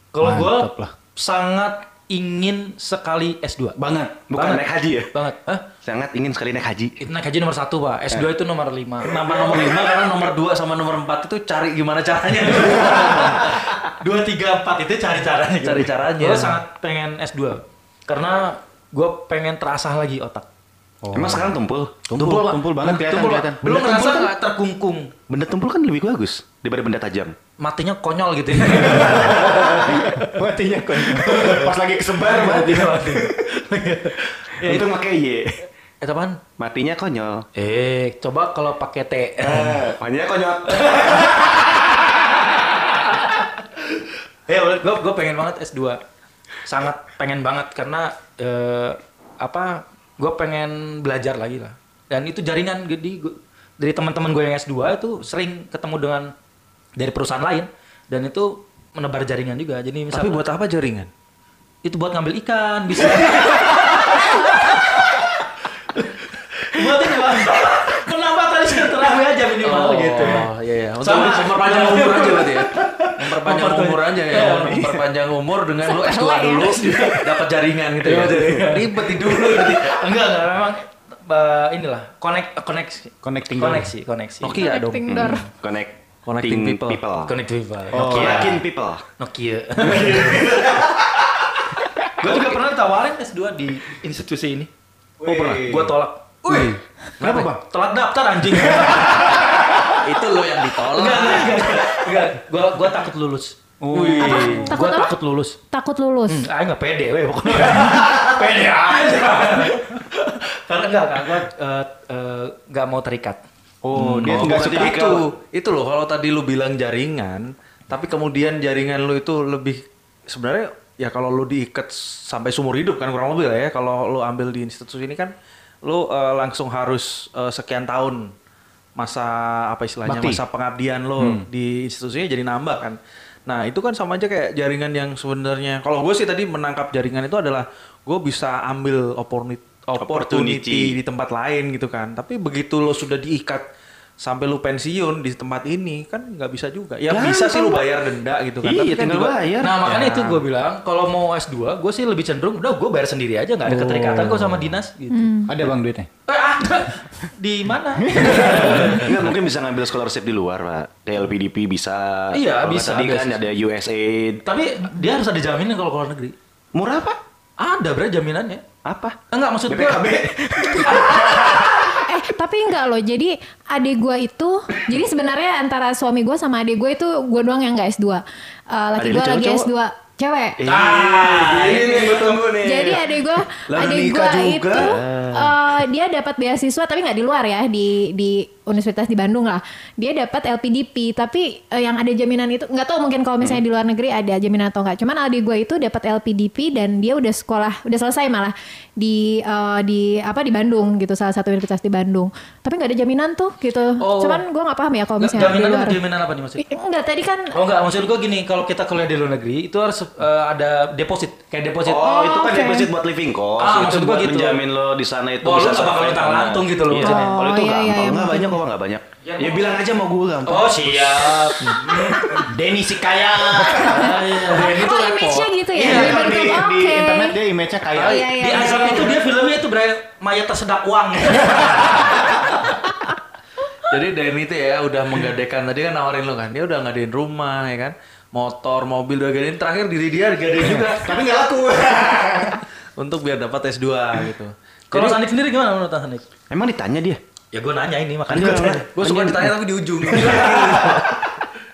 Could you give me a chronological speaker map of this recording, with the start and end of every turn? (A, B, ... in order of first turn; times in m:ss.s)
0:00.1-0:03.8 A
0:00.2-0:00.9 B
0:03.8-0:04.2 B
0:04.3-0:05.1 C
0:04.3-0:05.6 A
0:05.8-0:07.0 C
0:07.0-0:09.3 A
0:09.0-0:13.7 D
0:12.8-0:20.5 A
0:15.6-0:16.6 D
0:21.0-0:21.6 B
0:21.1-0:22.2 C
0:22.1-0:23.6 B
0:22.1-0:25.1 A
0:23.6-0:24.3 C
0:25.3-0:27.4 C
0:27.6-0:30.2 A
0:29.0-0:33.4 B
0:31.1-0:35.0 A
0:34.6-0:35.6 C
0:36.0-0:36.4 A
0:36.6-0:37.5 C
0:37.5-0:39.9 A
0:39.4-0:41.4 C
0:40.7-0:41.8 A
0:42.9-0:43.5 A
0:44.5-0:46.0 A
0:46.6-0:56.3 A
0:57.0-1:00.4 A
1:00.1-1:01.1 D
1:01.8-1:05.1 A
1:06.7-1:15.0 A
1:09.6-1:20.0 D
1:15.8-1:16.8 E
1:16.8-1:17.3 A
1:18.0-1:24.6 A
1:23.2-1:23.9 B
1:24.4-1:25.5 D
1:24.6-1:25.4 E
1:25.1-1:27.4 C
1:26.2-1:27.0 D
1:27.2-1:28.6 A
1:27.9-1:28.6 B
1:28.0-1:29.0 C
1:29.2-1:30.9 A
1:32.2-1:34.7 A
1:35.2-1:35.9 B
1:35.2-1:39.5 A
1:36.5-1:37.6 B
1:40.0-1:42.0 D
1:40.9-1:45.6 A
1:43.8-1:44.6 B
1:43.9-1:44.6 D
1:44.2-1:45.1 E
1:45.7-1:46.5 E
1:46.3-1:53.4 A
1:53.8-1:55.0 B
1:53.9-1:55.2 C
1:53.9-2:05.3 D
2:05.8-2:08.3 D
2:09.0-2:23.6 D
2:10.0-2:10.4 B
2:11.2-2:11.5 B
2:20.0-2:21.0 C
2:24.2-2:30.4 D
2:27.1-2:27.8 C
2:28.6-2:29.9 C
2:29.6-2:35.4 A
2:33.7-2:34.8 B
2:35.1-2:35.5 E
2:35.5-2:36.1 B
2:36.3-2:39.2 A
2:38.0-2:39.0 B
2:38.3-2:44.4 C
2:42.3-2:43.4 A
2:44.4-2:46.3 A
2:46.7-2:47.2 C
2:47.6-2:48.6 A
2:48.8-2:51.7 C
2:49.3-2:51.7 A
2:51.9-3:00.6 E
2:59.0-2:59.7 C
3:00.6-3:03.0 C
3:00.7-3:02.4 A
3:02.6-3:26.0 E
3:03.7-3:04.9 D
3:04.8-3:05.5 C
3:24.0-3:24.4 A
3:25.2-3:26.6 A
3:26.6-3:27.6 E
3:27.5-3:32.1 A
3:31.8-3:41.7 C
3:32.0-3:32.9 E
3:33.6-3:34.6 A
3:35.4-3:37.4 A
3:37.0-3:38.6 E
3:39.2-3:39.8 A
3:40.4-3:42.5 A
3:42.4-3:44.0 B
3:43.7-3:46.4 A
3:43.8-3:47.4 E
3:45.8-3:48.7 B
3:48.0-3:49.2 E
3:48.0-3:52.2 A
3:53.9-4:01.2 D
4:00.6-4:02.6 B
4:03.0-4:05.1 D
4:04.9-4:06.2 A
4:06.5-4:07.2 C
4:07.5-4:08.9 A
4:08.3-4:09.5 C
4:08.9-4:11.2 D
4:10.0-4:10.4 C